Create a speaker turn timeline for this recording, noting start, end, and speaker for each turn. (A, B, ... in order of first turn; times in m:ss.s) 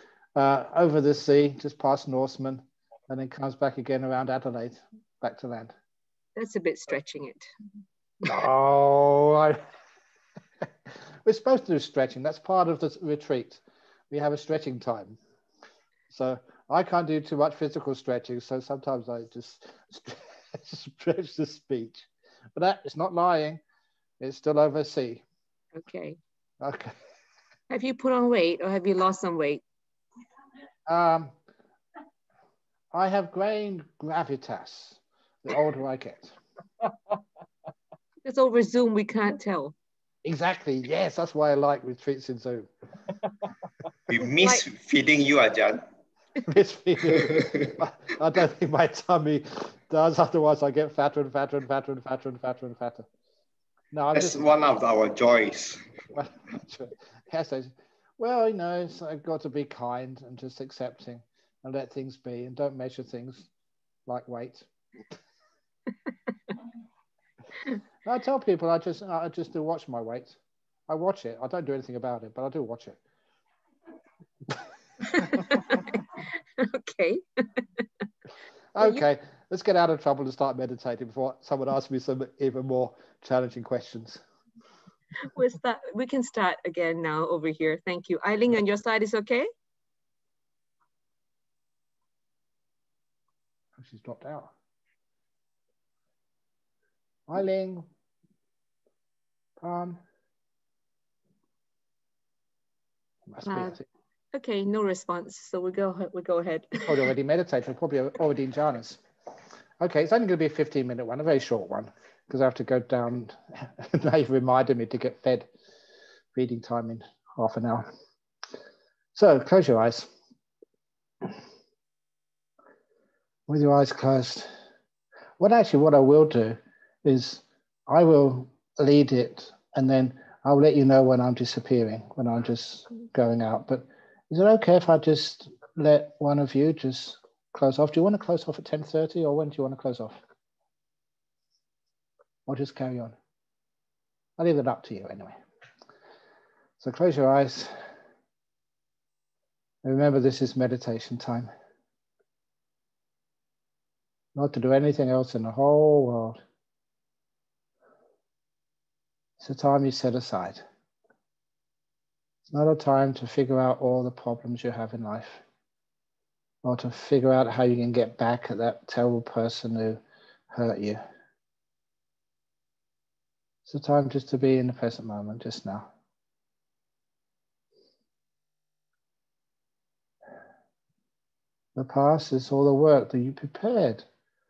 0:00.4-0:05.7 A
0:06.4-0:07.5 B
0:08.2-0:09.6 A
0:11.2-0:15.2 A
0:16.1-0:23.6 A
0:24.2-0:25.2 A
0:25.8-0:26.2 B
0:26.6-0:26.9 A
0:27.7-0:29.6 B
0:30.9-0:31.4 A
0:32.9-0:36.4 A
0:38.2-0:39.8 B
0:40.2-0:42.7 A
0:44.1-0:45.8 C
0:44.4-0:44.7 B
0:46.5-0:53.1 A
0:47.3-0:47.7 C
0:53.9-0:54.6 A
0:54.2-0:55.8 C
0:56.1-1:03.5 A
1:04.1-1:04.7 A
1:08.0-1:13.0 A
1:15.1-1:17.9 B
1:15.1-1:15.6 A
1:18.8-1:24.2 A
1:25.2-1:29.5 B
1:33.8-1:34.5 A
1:37.3-1:37.9 A
1:39.6-1:40.0 A
1:43.3-1:43.8 A
1:43.4-1:43.8 B
1:44.3-1:47.0 B
1:46.8-1:49.0 A
1:49.8-1:55.5 A
1:56.3-1:57.9 A
1:59.2-2:00.1 A
2:03.5-2:04.5 A
2:05.4-2:20.2 A
2:22.5-2:23.2 A
2:24.4-2:25.3 A
2:26.8-2:27.7 A
2:29.8-2:31.5 A
2:34.4-2:36.4 A
2:39.4-2:40.6 A
2:42.5-2:45.4 A
2:46.6-2:50.0 A
2:50.5-2:51.0 A
2:53.7-2:55.9 A
3:01.8-3:04.1 A